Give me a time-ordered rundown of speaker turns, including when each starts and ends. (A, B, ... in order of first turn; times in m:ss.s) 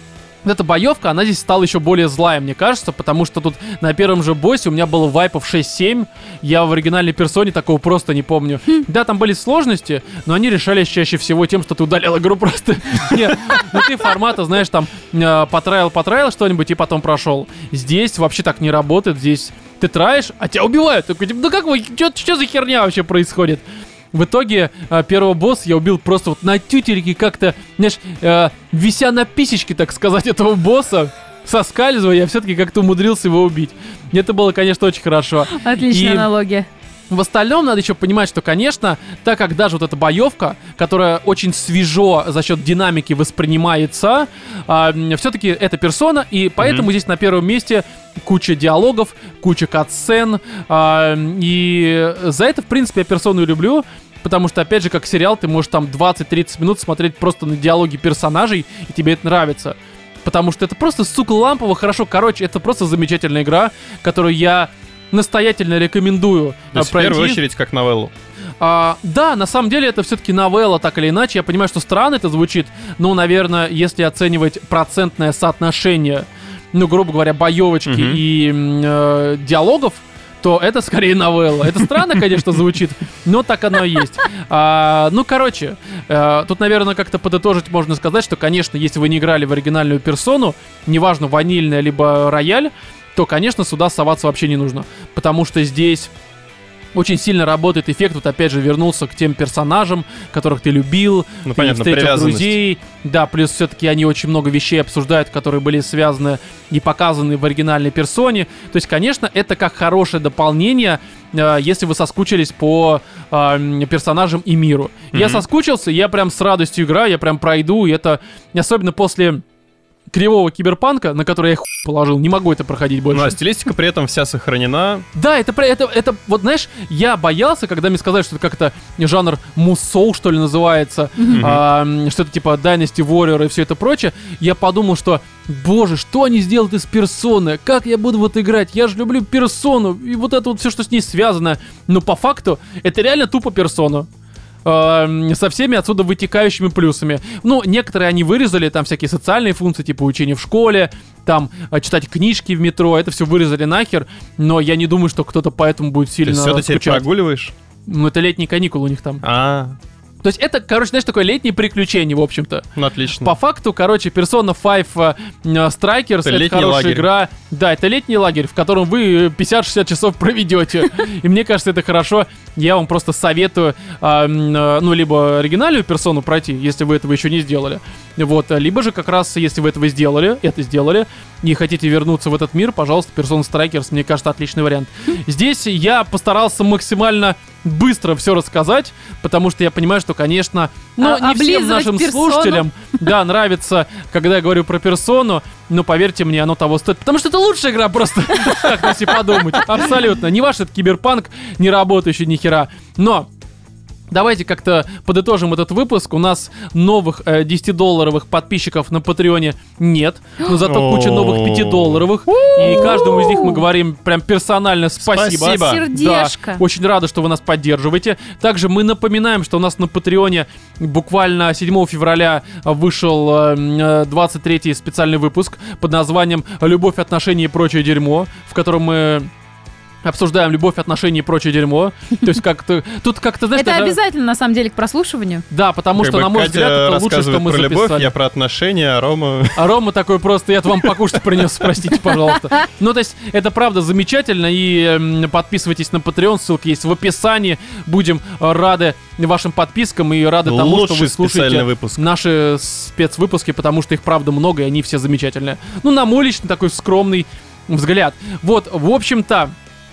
0:00.4-0:36.3 A
0:35.5-0:36.7 B
0:37.1-1:07.4 A
0:46.6-0:46.9 C
1:06.7-1:08.1 C
1:08.6-1:36.1 A
1:17.9-1:18.2 C
1:36.9-1:59.4 A
1:41.4-1:42.6 C
1:55.1-1:55.4 C
2:00.1-2:03.3 A
2:03.1-2:05.1 C
2:05.1-2:24.1 A
2:11.3-2:11.6 C
2:24.6-2:37.0 A
2:36.2-2:37.5 C
2:37.9-2:39.2 A
2:39.2-2:39.8 C
2:40.2-3:23.3 A
2:42.8-2:43.3 C
2:46.2-2:47.1 C
3:11.0-3:12.9 B
3:24.1-3:49.3 A
3:30.5-3:33.2 C
3:32.6-3:33.6 B
3:35.0-3:35.8 C
3:35.5-3:36.6 B
3:50.0-3:54.0 A
3:53.6-3:55.4 B
3:55.5-3:58.1 A
3:56.0-3:59.6 C
3:59.6-4:19.5 A
4:10.4-4:12.0 C